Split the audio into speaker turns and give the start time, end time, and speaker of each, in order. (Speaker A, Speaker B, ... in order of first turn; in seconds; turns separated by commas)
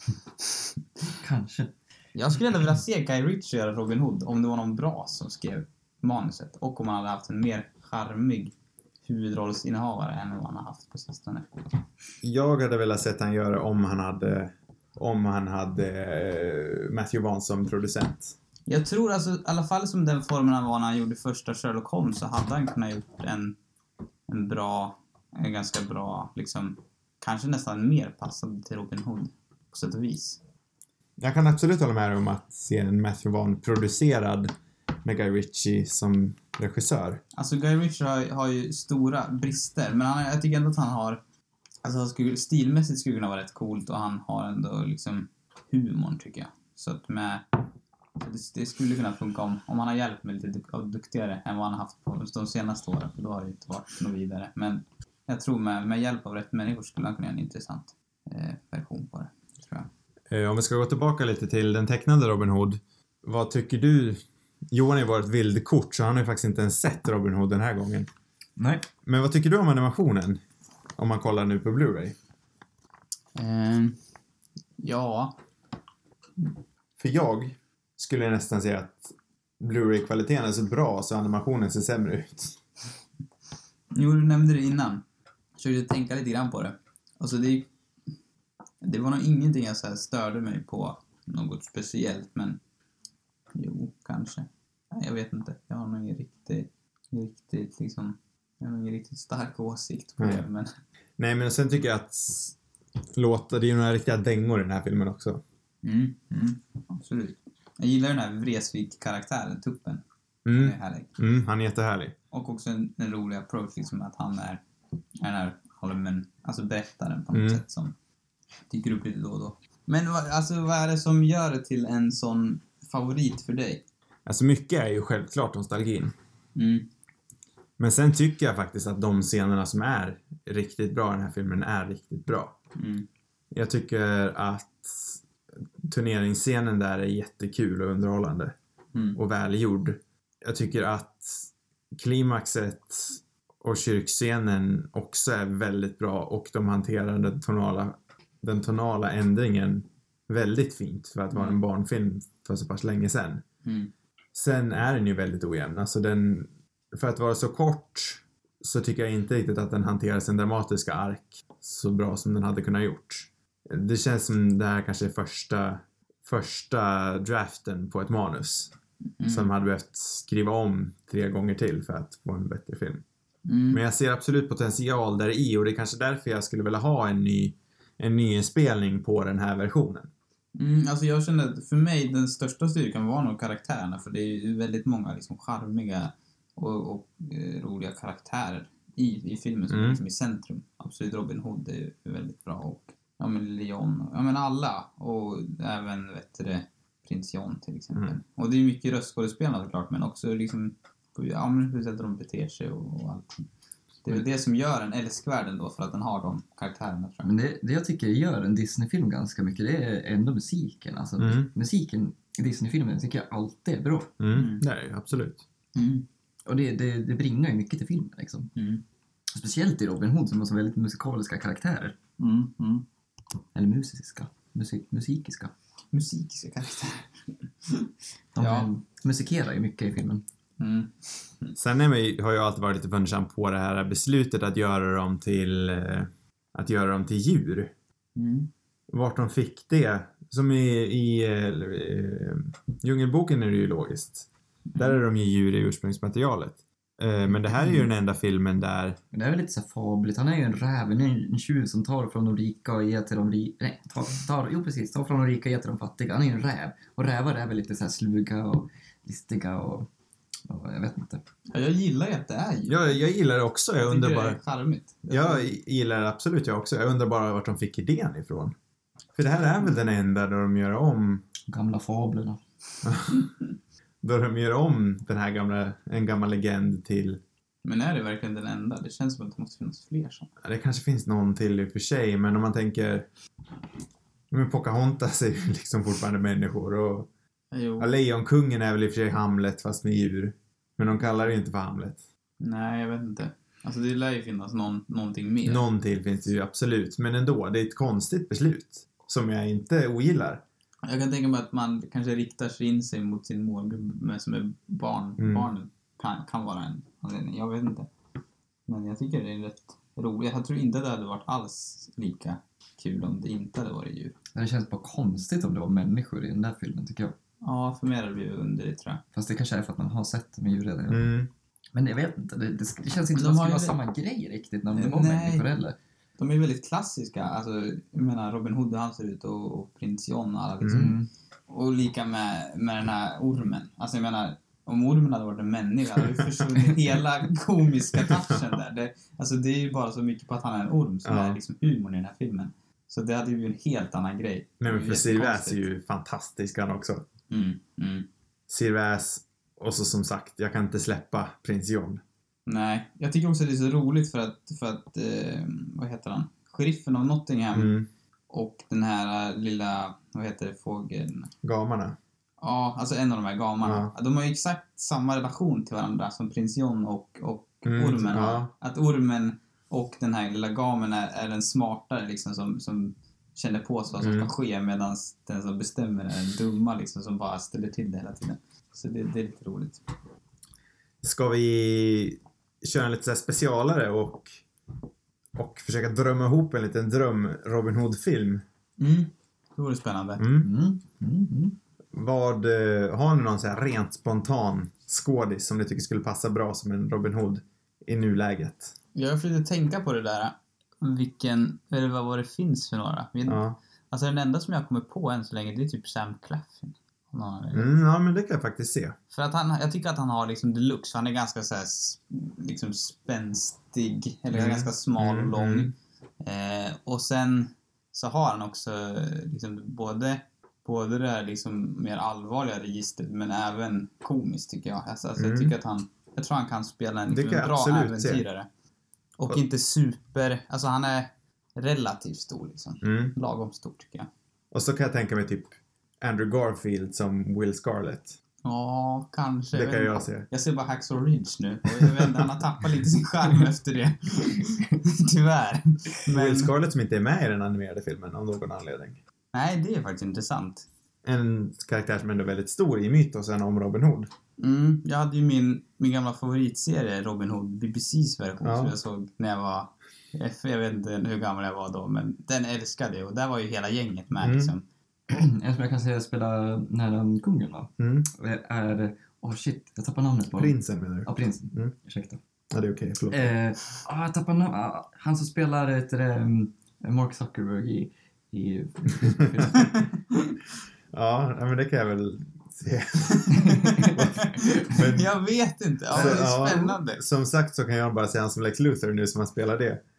Speaker A: 0.4-1.1, Speaker B: 1.2-1.7, Speaker A: 2.1-8.5, Speaker A: 9.1-11.7, Speaker C: 12.2-18.4, Speaker A: 18.7-23.6, Speaker A: 24.3-30.4, Speaker C: 31.2-34.5, Speaker C: 35.0-37.2, Speaker A: 37.3-41.2, Speaker A: 41.8-47.6, Speaker A: 48.2-59.9, Speaker C: 60.3-64.2, Speaker C: 64.7-68.1, Speaker B: 68.6-68.9, Speaker C: 69.0-70.4, Speaker C: 71.0-72.2, Speaker A: 73.3-74.0, Speaker A: 74.8-75.4, Speaker C: 77.0-82.6, Speaker A: 83.9-85.0, Speaker A: 85.6-87.7, Speaker A: 88.8-92.6, Speaker A: 93.5-100.8, Speaker C: 101.2-102.5, Speaker C: 103.2-105.4, Speaker A: 105.8-111.1, Speaker C: 110.5-112.2, Speaker A: 112.3-114.6, Speaker A: 115.2-117.9, Speaker C: 117.3-117.6, Speaker A: 118.7-123.8, Speaker C: 124.3-126.1, Speaker A: 126.5-126.9, Speaker C: 127.8-132.6, Speaker A: 132.8-133.1, Speaker C: 133.5-135.2, Speaker C: 135.8-138.6, Speaker C: 139.2-153.4, Speaker A: 151.3-151.6, Speaker A: 153.6-153.9, Speaker C: 154.3-168.7, Speaker A: 169.2-169.5, Speaker C: 169.3-173.0, Speaker A: 173.5-173.8, Speaker C: 173.7-180.1, Speaker A: 180.6-203.5, Speaker C: 189.7-190.0, Speaker A: 204.0-207.3, Speaker B: 207.2-214.1, Speaker C: 211.2-211.5, Speaker C: 214.2-215.4, Speaker A: 214.3-214.6, Speaker A: 215.8-216.1, Speaker B: 216.5-218.5, Speaker A: 218.6-218.8, Speaker B: 219.3-222.0, Speaker A: 222.2-222.8, Speaker B: 223.5-225.5, Speaker A: 225.9-228.7, Speaker B: 228.3-230.2, Speaker A: 230.6-231.5, Speaker C: 231.6-237.7, Speaker A: 238.2-238.5, Speaker C: 238.9-249.0, Speaker A: 244.7-245.0, Speaker B: 247.4-247.9, Speaker B: 249.1-259.9, Speaker B: 260.5-261.2, Speaker A: 261.5-263.1, Speaker C: 262.7-264.4, Speaker A: 263.8-265.5, Speaker C: 265.1-268.5, Speaker C: 269.2-271.2, Speaker B: 271.5-272.4, Speaker C: 272.8-273.3, Speaker C: 274.0-277.2, Speaker A: 277.6-280.3, Speaker C: 280.4-283.1, Speaker C: 284.3-287.1, Speaker A: 287.5-287.9, Speaker C: 287.8-292.0, Speaker A: 291.0-291.4, Speaker A: 292.4-295.6, Speaker C: 295.4-300.4, Speaker A: 300.9-307.9, Speaker C: 305.2-305.5, Speaker A: 308.7-314.2, Speaker B: 314.3-317.1, Speaker A: 317.4-319.0, Speaker B: 319.1-321.1, Speaker C: 320.9-321.3, Speaker B: 321.7-325.8, Speaker A: 323.1-323.8, Speaker A: 324.8-325.5, Speaker A: 326.2-345.6, Speaker C: 330.6-330.9, Speaker B: 330.7-331.1, Speaker C: 341.1-341.4, Speaker C: 344.6-347.0, Speaker A: 347.3-348.1, Speaker C: 348.5-352.0, Speaker A: 352.5-357.7, Speaker C: 357.5-357.9, Speaker A: 358.3-361.3, Speaker C: 361.4-362.0, Speaker A: 362.4-379.8, Speaker C: 363.6-363.9, Speaker C: 367.6-368.5, Speaker C: 374.0-374.3, Speaker C: 381.0-384.4, Speaker C: 385.4-388.4, Speaker A: 388.8-390.2, Speaker C: 390.2-390.5, Speaker B: 390.4-391.6, Speaker C: 391.9-398.7, Speaker A: 398.9-407.7, Speaker C: 403.3-403.6, Speaker C: 407.5-408.9, Speaker A: 409.1-428.5, Speaker C: 414.3-415.7, Speaker C: 425.2-425.5, Speaker C: 427.1-428.2, Speaker A: 429.2-434.1, Speaker C: 432.8-433.1, Speaker C: 434.5-438.2, Speaker A: 438.4-446.5, Speaker C: 439.5-440.3, Speaker C: 441.8-442.2, Speaker C: 446.1-449.0, Speaker A: 449.3-450.7, Speaker C: 451.1-454.1, Speaker A: 454.4-464.6, Speaker C: 458.4-458.8, Speaker C: 464.2-464.5, Speaker B: 465.1-472.2, Speaker C: 467.8-468.1, Speaker C: 470.4-471.7, Speaker C: 472.5-473.3, Speaker B: 473.1-479.9, Speaker C: 479.0-479.3, Speaker C: 480.9-485.1, Speaker A: 483.3-487.0, Speaker B: 483.6-483.9, Speaker B: 485.9-486.3, Speaker C: 485.9-489.8